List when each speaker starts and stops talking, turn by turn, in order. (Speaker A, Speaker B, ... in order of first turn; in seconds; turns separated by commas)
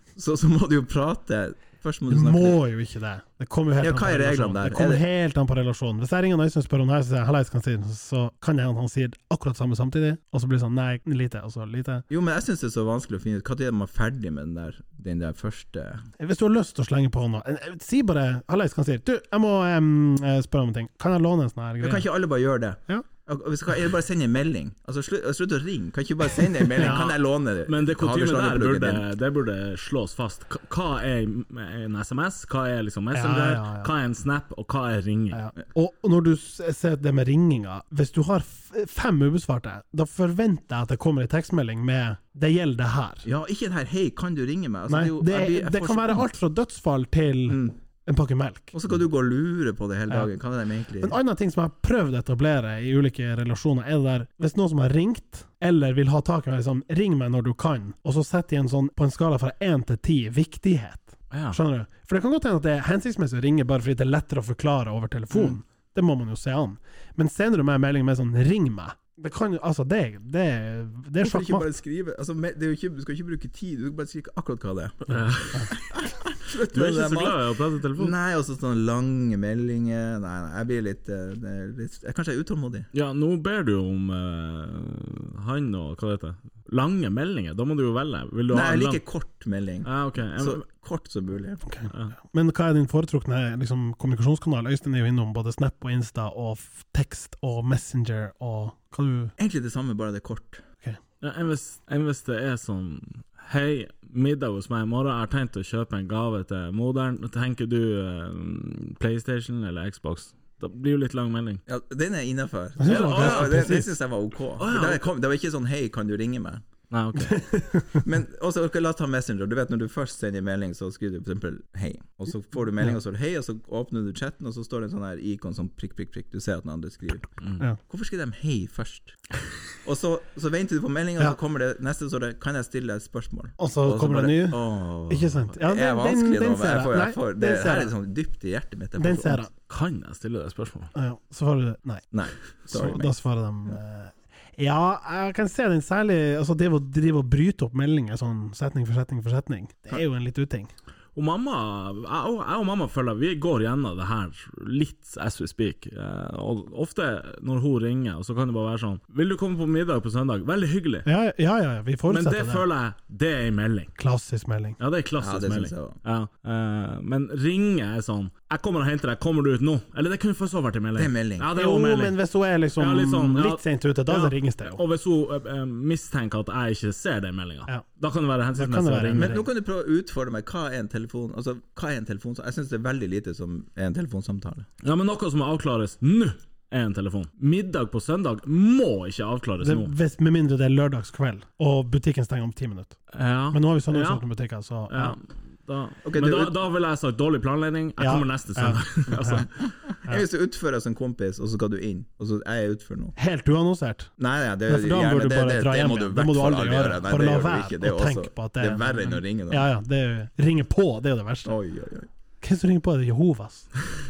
Speaker A: 0.1-2.6, Speaker B: 2.1-12.0, Speaker A: 3.8-5.0, Speaker A: 12.1-16.1, Speaker B: 16.2-22.1, Speaker A: 21.8-29.1, Speaker B: 26.8-27.1, Speaker C: 26.8-27.1, Speaker C: 27.6-35.4, Speaker B: 33.1-33.9, Speaker B: 35.3-43.3, Speaker A: 43.2-46.3, Speaker B: 44.9-48.7, Speaker A: 47.5-47.8, Speaker A: 48.7-51.2, Speaker B: 51.0-71.7, Speaker C: 61.3-61.6, Speaker A: 71.2-75.2, Speaker C: 75.1-75.8, Speaker A: 75.7-82.9, Speaker C: 76.7-78.1, Speaker C: 82.9-89.0, Speaker A: 88.5-91.6, Speaker C: 89.8-90.6, Speaker B: 91.7-99.3, Speaker C: 91.9-92.1, Speaker A: 99.4-100.6, Speaker C: 101.2-111.6, Speaker A: 111.7-116.6, Speaker B: 112.8-113.9, Speaker C: 112.8-113.8, Speaker C: 114.6-115.0, Speaker C: 116.9-117.5, Speaker B: 117.2-118.0, Speaker A: 118.0-129.2, Speaker A: 129.8-139.4, Speaker B: 133.6-137.9, Speaker B: 139.0-139.5, Speaker C: 139.7-140.9, Speaker B: 140.9-142.1, Speaker A: 142.1-143.1, Speaker B: 142.7-150.7, Speaker C: 151.1-161.1, Speaker B: 161.1-162.6, Speaker C: 162.1-163.9, Speaker B: 164.0-164.8, Speaker C: 164.8-172.2, Speaker A: 165.2-166.0, Speaker A: 170.9-171.5, Speaker B: 171.6-174.8, Speaker C: 172.8-179.4, Speaker B: 178.6-179.4, Speaker A: 179.1-184.7, Speaker C: 184.8-189.9, Speaker B: 189.6-193.0, Speaker C: 193.1-194.2, Speaker B: 193.5-195.2, Speaker C: 194.9-199.7, Speaker A: 196.0-196.5, Speaker B: 198.0-199.4, Speaker A: 199.1-203.2, Speaker B: 203.2-204.1, Speaker A: 204.2-209.7, Speaker B: 204.7-211.5, Speaker A: 211.4-212.1, Speaker B: 212.4-213.7